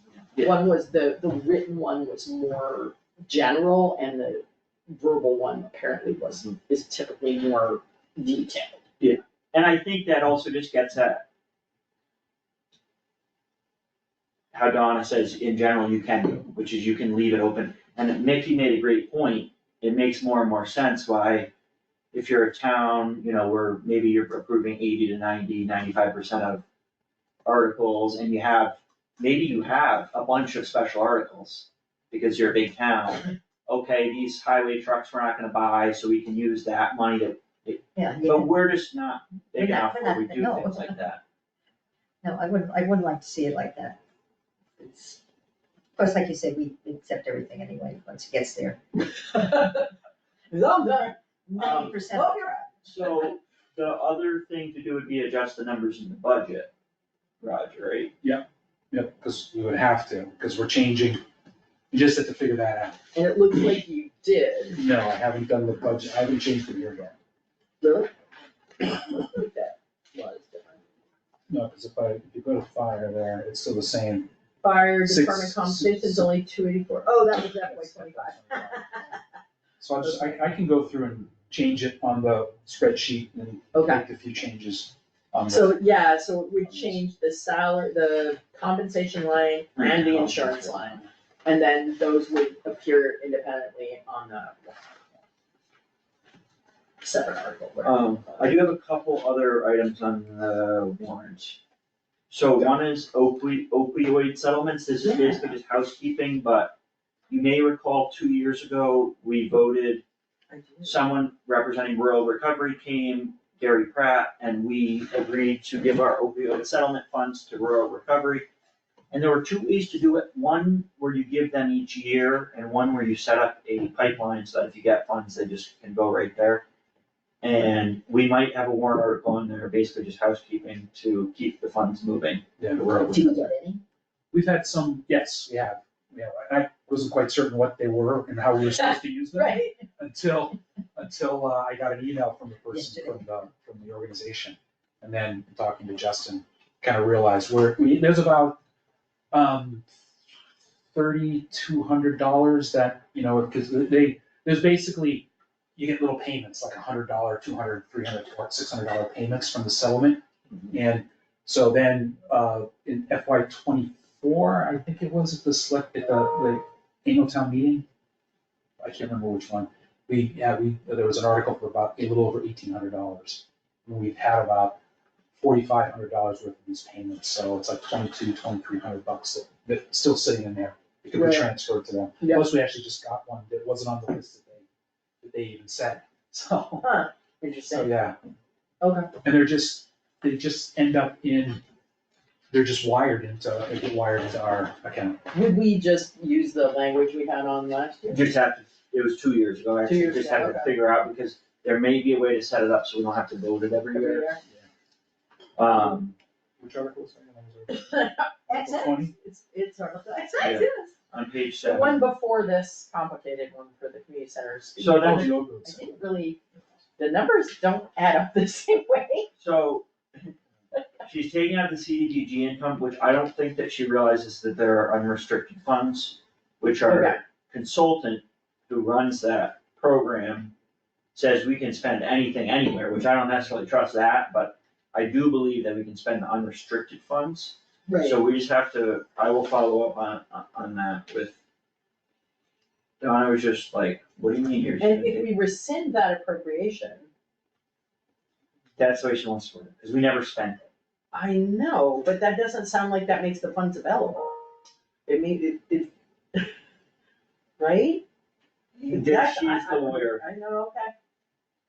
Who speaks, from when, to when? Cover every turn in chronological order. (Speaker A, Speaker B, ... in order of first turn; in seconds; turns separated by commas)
Speaker A: 0.4-8.8, Speaker B: 9.0-11.2, Speaker B: 14.5-21.5, Speaker B: 22.1-26.6, Speaker B: 27.4-41.2, Speaker C: 38.0-38.5, Speaker C: 39.6-40.9, Speaker C: 42.2-44.0, Speaker C: 44.8-45.2, Speaker C: 46.0-48.8, Speaker A: 49.1-49.9, Speaker A: 50.5-53.3, Speaker C: 51.5-52.7, Speaker B: 51.6-51.9, Speaker B: 52.8-56.7, Speaker B: 57.4-58.1, Speaker D: 58.2-61.2, Speaker D: 61.9-63.0, Speaker A: 63.1-64.8, Speaker D: 64.7-67.2, Speaker A: 67.8-68.1, Speaker A: 68.8-70.8, Speaker D: 71.5-74.3, Speaker A: 74.6-79.2, Speaker D: 75.0-76.3, Speaker D: 77.3-78.9, Speaker D: 79.8-85.7, Speaker A: 83.7-84.0, Speaker A: 85.5-95.0, Speaker D: 86.7-87.0, Speaker B: 89.8-90.7, Speaker A: 97.0-98.5, Speaker B: 97.8-101.6, Speaker B: 102.3-106.8, Speaker A: 105.0-105.5, Speaker B: 107.3-110.0, Speaker A: 110.5-111.0, Speaker B: 110.8-118.5, Speaker B: 119.1-126.6, Speaker B: 127.4-133.3, Speaker D: 132.6-133.2, Speaker A: 133.1-133.8, Speaker C: 133.1-133.5, Speaker D: 134.3-148.6, Speaker A: 139.3-139.8, Speaker C: 142.7-143.2, Speaker D: 149.3-149.8, Speaker D: 150.9-167.8, Speaker D: 168.8-174.8, Speaker D: 175.3-184.7, Speaker A: 181.1-181.5, Speaker D: 185.2-186.8, Speaker A: 186.8-187.9, Speaker D: 187.7-188.2, Speaker A: 188.8-189.1, Speaker D: 189.2-191.6, Speaker D: 192.5-195.2, Speaker A: 195.3-198.3, Speaker B: 198.1-204.3, Speaker A: 199.8-200.7, Speaker A: 203.9-204.4, Speaker B: 205.6-206.1, Speaker D: 205.8-207.8, Speaker A: 207.7-210.9, Speaker D: 208.5-209.1, Speaker B: 210.4-212.0, Speaker A: 211.6-216.4, Speaker B: 214.8-215.3, Speaker D: 215.0-216.0, Speaker A: 217.0-219.3, Speaker B: 219.4-220.3, Speaker B: 221.1-230.5, Speaker A: 226.9-227.2, Speaker B: 231.2-241.4, Speaker A: 237.9-238.2, Speaker B: 243.0-245.3, Speaker A: 244.8-247.1, Speaker B: 248.8-250.7, Speaker A: 251.1-254.3, Speaker A: 255.1-256.5, Speaker A: 257.6-258.0, Speaker A: 258.8-260.9, Speaker B: 258.9-260.2